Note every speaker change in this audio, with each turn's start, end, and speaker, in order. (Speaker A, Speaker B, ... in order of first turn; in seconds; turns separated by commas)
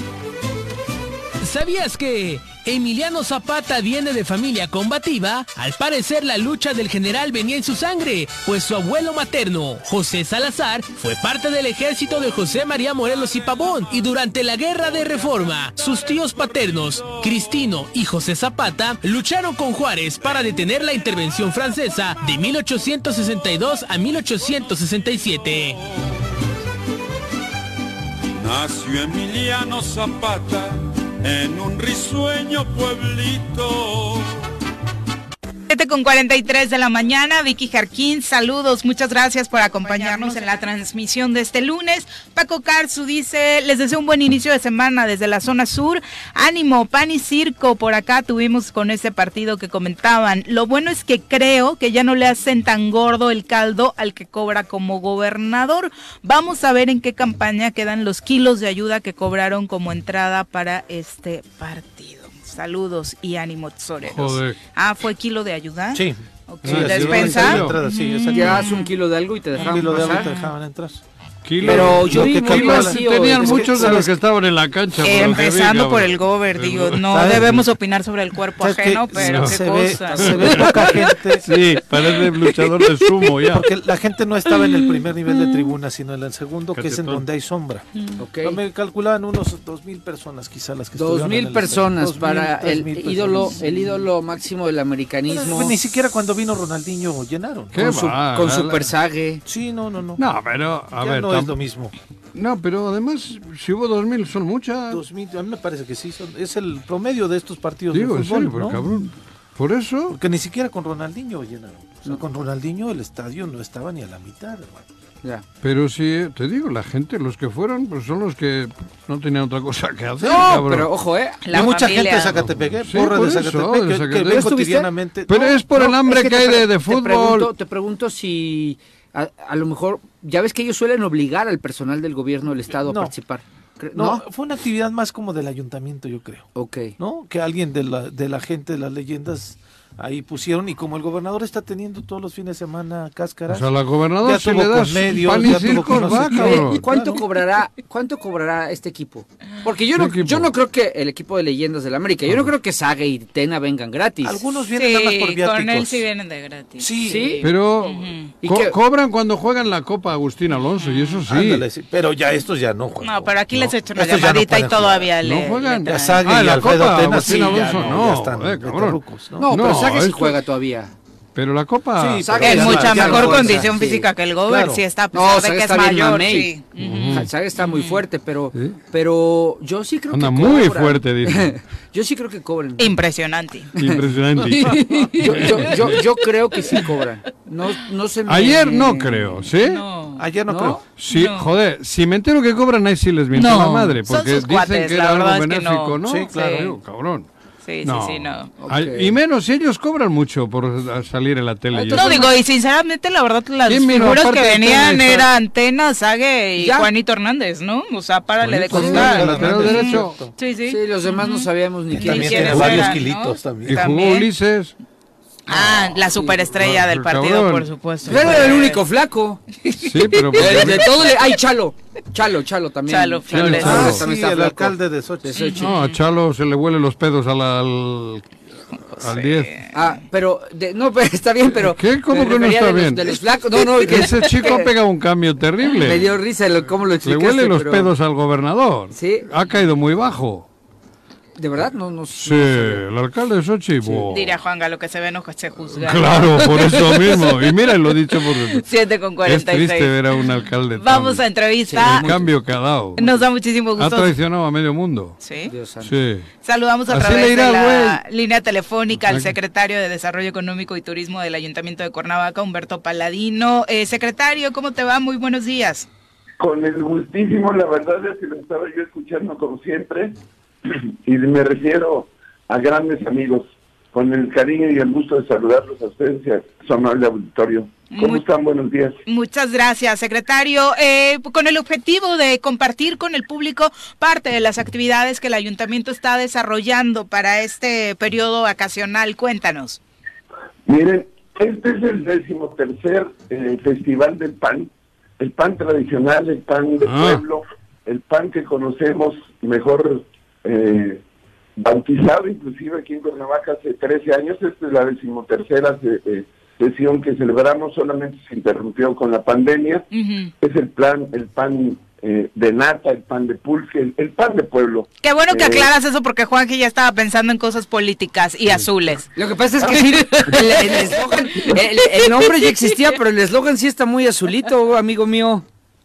Speaker A: 1.4-25.8, Speaker B: 13.0-14.1, Speaker B: 15.5-17.5, Speaker B: 25.5-25.9, Speaker B: 28.4-34.4, Speaker C: 35.7-68.9, Speaker D: 64.0-64.6, Speaker E: 65.9-68.8, Speaker D: 66.6-67.8, Speaker F: 68.3-70.3, Speaker C: 69.6-70.5, Speaker E: 69.6-71.0, Speaker D: 71.4-77.6, Speaker E: 71.6-74.1, Speaker F: 71.6-74.0, Speaker C: 75.0-81.0, Speaker E: 77.1-77.6, Speaker E: 78.6-81.5, Speaker D: 79.2-79.6, Speaker D: 80.3-80.7, Speaker D: 81.4-83.7, Speaker E: 83.5-87.8, Speaker D: 86.7-87.2, Speaker F: 88.2-88.6, Speaker E: 88.4-93.9, Speaker F: 90.9-95.8, Speaker E: 95.3-97.9, Speaker D: 97.7-98.8, Speaker F: 97.8-99.4, Speaker E: 99.4-100.2, Speaker D: 100.2-101.5, Speaker E: 100.9-101.9, Speaker D: 102.3-105.0, Speaker E: 104.9-108.8, Speaker D: 107.9-110.2, Speaker E: 110.1-114.9, Speaker D: 115.6-120.9, Speaker F: 120.2-121.4, Speaker C: 121.4-122.3, Speaker E: 121.5-126.6, Speaker D: 122.8-127.5, Speaker F: 126.2-134.2, Speaker E: 132.8-133.1, Speaker E: 133.9-143.7, Speaker F: 136.5-136.9, Speaker D: 143.5-146.8, Speaker E: 144.2-147.2, Speaker F: 145.8-154.4, Speaker D: 149.9-150.5, Speaker E: 154.2-156.0, Speaker C: 154.7-158.3, Speaker E: 156.8-157.4, Speaker F: 157.1-157.4, Speaker D: 157.4-161.6, Speaker F: 158.4-158.8, Speaker C: 160.6-161.2, Speaker E: 161.3-165.1, Speaker C: 163.0-166.3, Speaker D: 165.2-170.4, Speaker E: 165.9-169.6, Speaker F: 169.4-170.9, Speaker D: 171.3-172.4, Speaker E: 172.0-173.7, Speaker F: 172.2-174.1, Speaker C: 172.4-178.0, Speaker E: 174.4-174.8, Speaker F: 175.1-176.6, Speaker D: 176.8-177.3, Speaker F: 177.1-182.9, Speaker D: 180.1-181.6, Speaker C: 182.8-183.7, Speaker D: 183.8-186.0, Speaker F: 184.5-189.4, Speaker D: 188.3-189.8, Speaker C: 189.6-190.2, Speaker E: 190.2-190.8, Speaker F: 190.5-190.8, Speaker D: 191.0-197.3, Speaker C: 191.1-191.5, Speaker C: 193.3-196.7, Speaker E: 196.0-196.8, Speaker C: 197.6-198.5, Speaker D: 197.8-202.3, Speaker F: 198.6-199.1, Speaker F: 201.7-202.3, Speaker C: 201.9-214.3, Speaker D: 203.7-205.3, Speaker F: 206.6-206.9, Speaker D: 208.4-210.2, Speaker E: 208.7-210.3, Speaker F: 210.7-213.0, Speaker E: 211.9-213.8, Speaker D: 213.6-214.7, Speaker C: 215.5-218.8, Speaker D: 215.6-215.9, Speaker D: 216.5-218.5, Speaker F: 218.1-219.6, Speaker D: 219.8-221.1, Speaker F: 220.3-225.7, Speaker C: 222.9-224.0, Speaker D: 223.3-224.0, Speaker E: 223.5-225.4, Speaker C: 225.3-226.0, Speaker D: 225.6-228.3, Speaker C: 228.8-229.7, Speaker D: 229.0-229.7, Speaker F: 229.7-234.7, Speaker D: 231.6-233.2, Speaker D: 233.8-236.1, Speaker F: 235.8-237.9, Speaker D: 237.0-240.5, Speaker F: 238.9-239.3, Speaker F: 241.4-242.8, Speaker D: 242.2-244.4, Speaker C: 244.1-247.2, Speaker D: 245.7-248.7, Speaker C: 248.5-249.9, Speaker D: 249.2-253.2, Speaker C: 250.8-252.1, Speaker F: 251.7-252.4, Speaker C: 253.0-254.2, Speaker D: 253.7-255.2, Speaker C: 255.2-255.5, Speaker F: 255.5-255.9, Speaker D: 255.8-256.3, Speaker C: 256.4-265.9, Speaker D: 256.9-258.0, Speaker G: 266.4-279.0, Speaker C: 277.9-278.2, Speaker C: 279.1-289.8, Speaker G: 290.6-301.0, Speaker D: 296.8-297.2, Speaker G: 301.6-309.9, Speaker C: 309.9-310.3, Speaker G: 310.4-315.7, Speaker C: 315.0-319.1, Speaker F: 319.1-325.4, Speaker G: 319.7-321.6, Speaker C: 320.3-320.9, Speaker C: 321.5-322.6